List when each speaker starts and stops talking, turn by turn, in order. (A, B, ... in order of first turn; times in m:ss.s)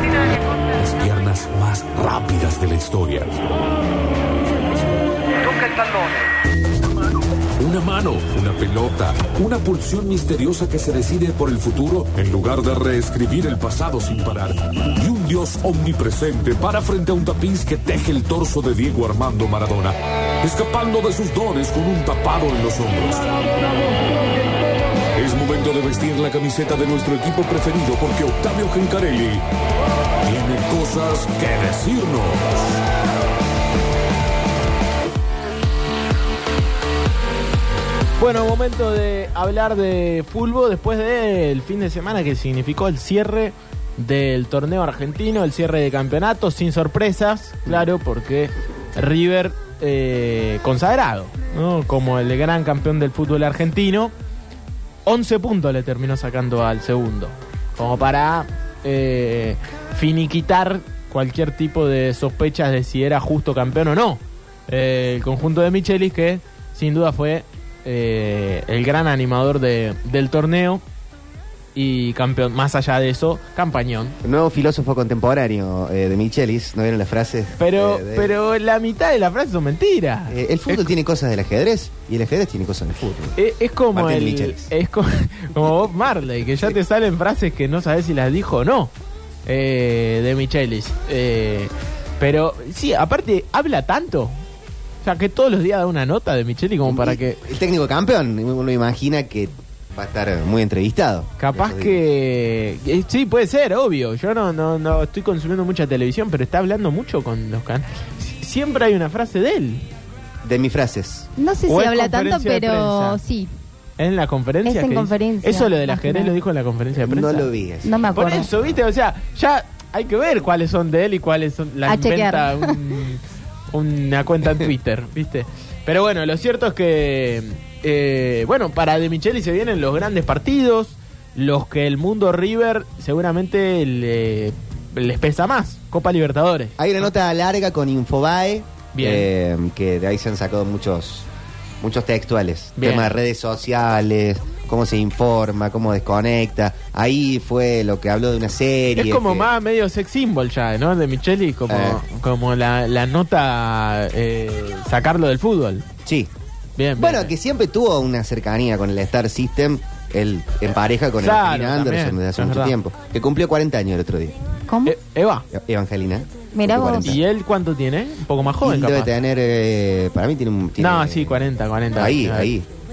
0:00.2-0:03.5 A
0:05.5-0:06.1 A
0:07.6-0:23.3 A
0:25.2-0:29.4 A
0:30.2-0:32.8 A
0:38.2-0:54.1 B
0:55.0-1:10.8 B
1:11.8-1:14.2 B
1:14.2-1:18.3 C
1:17.6-1:20.9 B
1:20.3-1:23.3 C
1:23.0-1:28.9 B
1:23.9-1:24.7 C
1:29.4-1:34.3 B
1:35.0-1:37.4 B
1:36.9-1:42.0 C
1:41.4-1:49.8 B
1:50.4-1:51.3 C
1:51.4-1:53.5 D
1:51.7-1:53.2 B
1:54.0-1:57.5 B
1:54.6-1:56.3 D
1:57.0-1:58.0 C
1:57.8-1:58.5 D
1:58.2-2:03.2 B
2:01.9-2:02.8 D
2:03.7-2:16.8 B
2:16.8-2:21.3 C
2:18.9-2:19.3 B
2:21.8-2:29.5 C
2:22.8-2:23.2 B
2:28.9-2:35.8 B
2:31.7-2:32.0 C
2:36.0-2:36.3 C
2:36.8-2:37.3 B
2:37.0-2:44.4 C
2:41.2-2:42.8 B
2:44.7-2:44.9 D
2:44.8-2:45.5 B
2:45.5-2:47.2 C
2:46.5-2:47.1 D
2:47.0-2:49.2 B
2:48.6-2:51.4 C
2:50.8-2:52.5 B
2:51.9-2:52.7 C